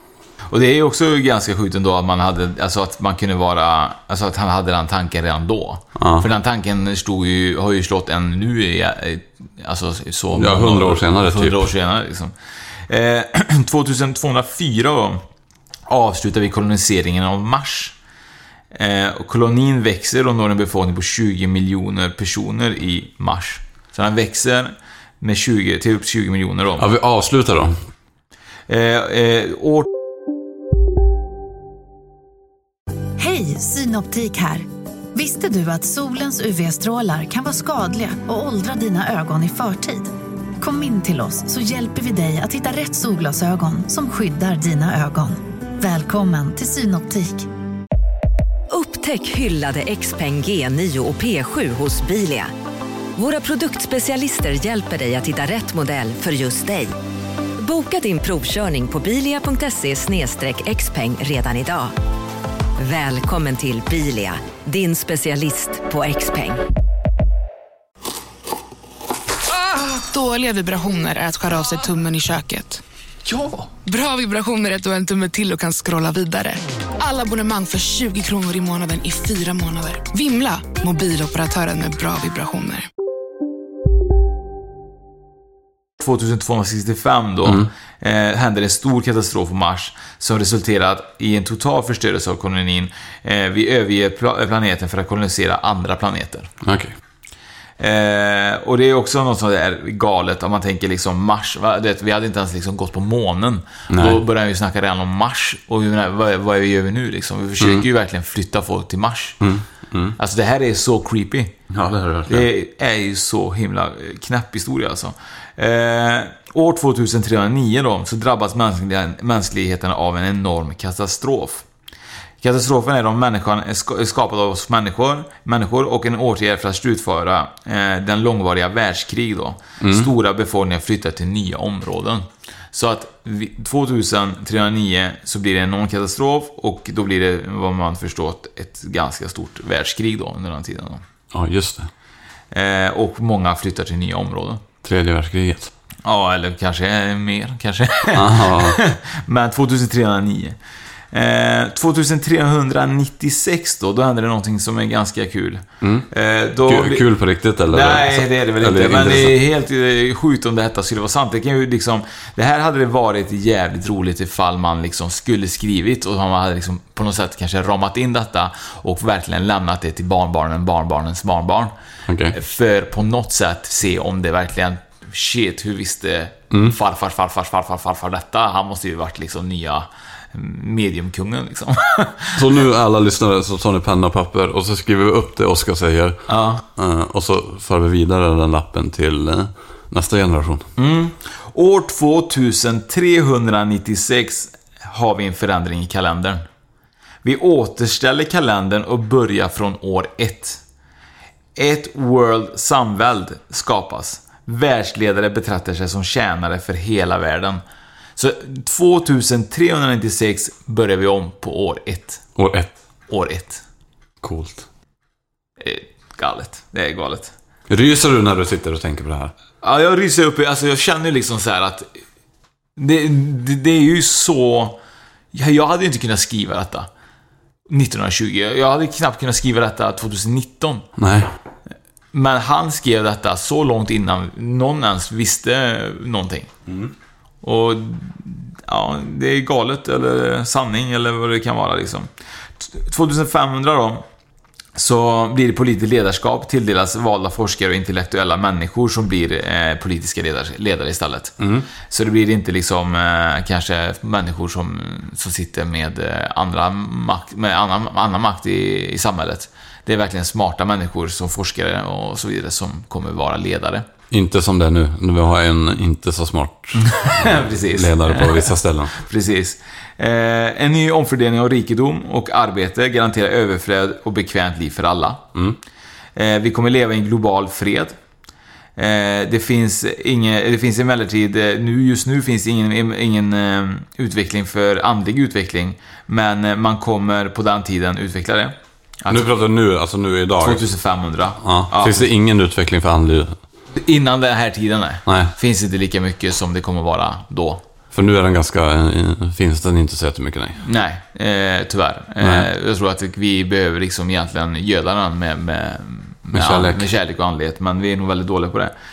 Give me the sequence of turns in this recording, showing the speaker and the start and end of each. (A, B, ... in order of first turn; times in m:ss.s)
0:00.5-0:12.3 A
0:06.0-0:06.3 B
0:10.3-0:11.7 B
0:12.9-0:15.2 A
0:15.9-0:18.0 A
0:18.7-0:26.9 A
0:26.8-0:27.8 B
0:28.7-0:29.9 A
0:33.2-0:47.5 C
0:48.7-0:52.5 D
0:53.2-0:56.9 D
0:57.6-1:01.9 D
1:02.8-1:06.6 D
1:09.7-1:12.8 E
1:13.8-1:22.9 E
1:26.0-1:36.5 A
1:27.4-1:27.7 B
1:36.6-1:37.0 B
1:37.8-1:49.4 A
1:43.9-1:44.2 B
1:47.6-1:47.9 B
1:49.4-1:50.2 B
1:50.2-1:51.5 A
1:51.7-1:52.5 B
1:52.3-2:01.6 A
2:02.4-2:21.0 A
2:09.8-2:10.1 B
2:21.3-2:21.9 B
2:22.5-2:24.6 A
2:24.8-2:25.7 B
2:26.0-2:30.6 A
2:28.1-2:28.8 B
2:31.1-2:37.0 A
2:35.8-2:36.1 B
2:36.6-2:39.4 B
2:37.7-2:51.7 A
2:52.1-2:52.4 B
2:52.3-3:02.5 A
2:56.5-2:56.8 B
3:02.4-3:06.2 B
3:06.3-3:06.6 A
3:06.8-3:10.7 B
3:10.8-3:16.4 A
3:17.2-3:20.6 A
3:21.6-3:27.6 A
3:28.2-3:32.2 A
3:32.4-3:32.7 B
3:33.1-3:33.6 A
3:34.2-3:34.7 B
3:35.6-3:37.3 A
3:37.7-3:39.3 B
3:39.6-3:41.9 A
3:42.8-3:44.8 A
3:45.3-3:46.9 A
3:47.7-3:50.9 A
3:51.0-3:51.3 B
3:52.1-3:56.5 A
3:57.4-4:02.1 A
4:02.6-4:04.0 A
4:04.8-4:23.9 A
4:11.4-4:11.7 B
4:24.1-4:29.0 B
4:26.8-4:35.2 A
4:36.2-4:38.0 A
4:38.8-4:49.3 A
4:49.1-4:50.6 B
4:50.4-4:52.1 A
4:51.4-4:53.4 B
4:53.8-4:57.6 A
4:55.1-4:55.3 B
4:57.9-5:00.6 B
5:00.6-5:08.7 A
5:02.2-5:02.5 B
5:06.3-5:06.9 B